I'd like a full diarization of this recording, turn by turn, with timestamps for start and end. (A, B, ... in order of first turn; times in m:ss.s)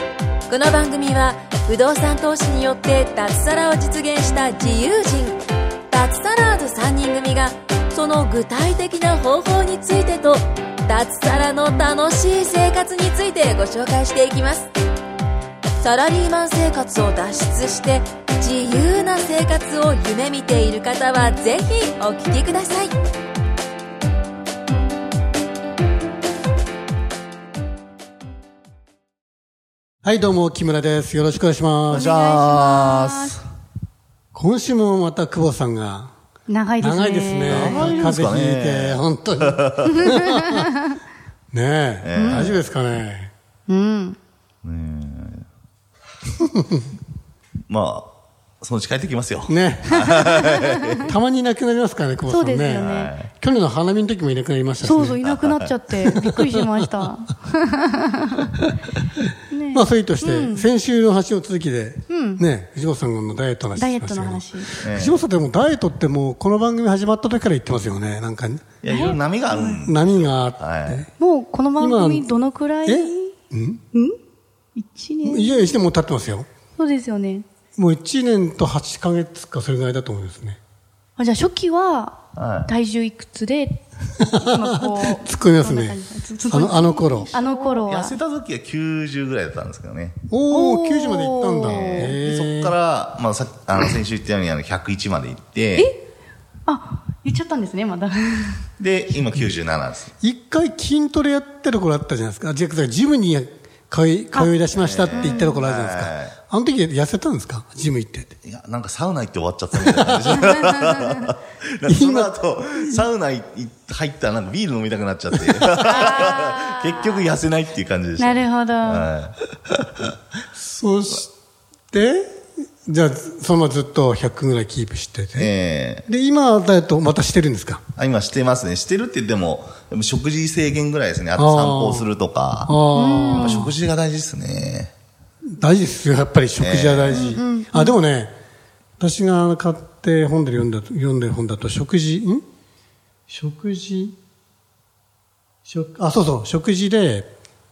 0:00.5-0:05.4 A
0:05.9-0:14.7 A
0:15.8-0:22.9 A
0:30.0-0:32.1 B
0:31.9-0:33.4 C
0:31.9-0:33.4 D
0:34.3-0:36.1 B
0:36.5-0:38.2 D
0:36.8-0:40.7 B
0:37.5-0:39.9 C
0:40.0-0:40.7 D
0:41.5-0:43.3 B
0:42.0-0:42.6 C
0:42.2-0:42.6 D
0:43.7-0:44.2 D
0:44.6-0:45.5 C
0:47.7-0:51.1 C
0:49.5-0:50.4 B
0:51.0-0:55.2 B
0:52.3-0:53.1 D
0:52.8-0:53.3 C
0:54.8-0:58.5 D
0:55.2-0:55.7 C
0:56.0-0:56.4 B
0:59.5-1:00.7 D
0:59.7-1:08.8 B
1:02.1-1:02.4 D
1:03.8-1:04.7 D
1:04.8-1:05.2 C
1:08.8-1:11.1 C
1:08.9-1:09.8 D
1:09.6-1:11.1 B
1:11.2-1:13.4 D
1:11.8-1:12.3 B
1:12.9-1:13.8 B
1:13.9-1:14.2 D
1:14.8-1:15.8 D
1:15.2-1:16.5 B
1:16.8-1:17.4 D
1:17.8-1:20.6 B
1:21.2-1:28.2 D
1:22.4-1:22.7 C
1:24.4-1:27.3 B
1:27.0-1:30.2 C
1:30.3-1:32.7 B
1:30.5-1:32.2 D
1:31.7-1:35.9 C
1:35.8-1:36.0 D
1:36.7-1:38.6 D
1:38.8-1:40.1 C
1:40.2-1:48.3 B
1:44.7-1:46.4 C
1:45.1-1:45.6 D
1:48.4-1:59.4 C
1:49.8-1:50.6 B
1:51.9-1:53.0 B
1:55.5-1:56.0 B
1:55.8-1:57.3 D
1:58.2-1:59.1 D
2:00.6-2:01.3 B
2:01.9-2:05.5 B
2:05.4-2:06.1 C
2:06.1-2:07.8 B
2:08.0-2:12.8 C
2:11.4-2:12.1 B
2:12.7-2:13.7 B
2:12.9-2:13.7 D
2:13.4-2:14.9 C
2:15.5-2:18.3 B
2:16.6-2:17.3 C
2:17.1-2:18.0 D
2:19.0-2:22.4 B
2:23.3-2:24.2 B
2:25.6-2:27.3 B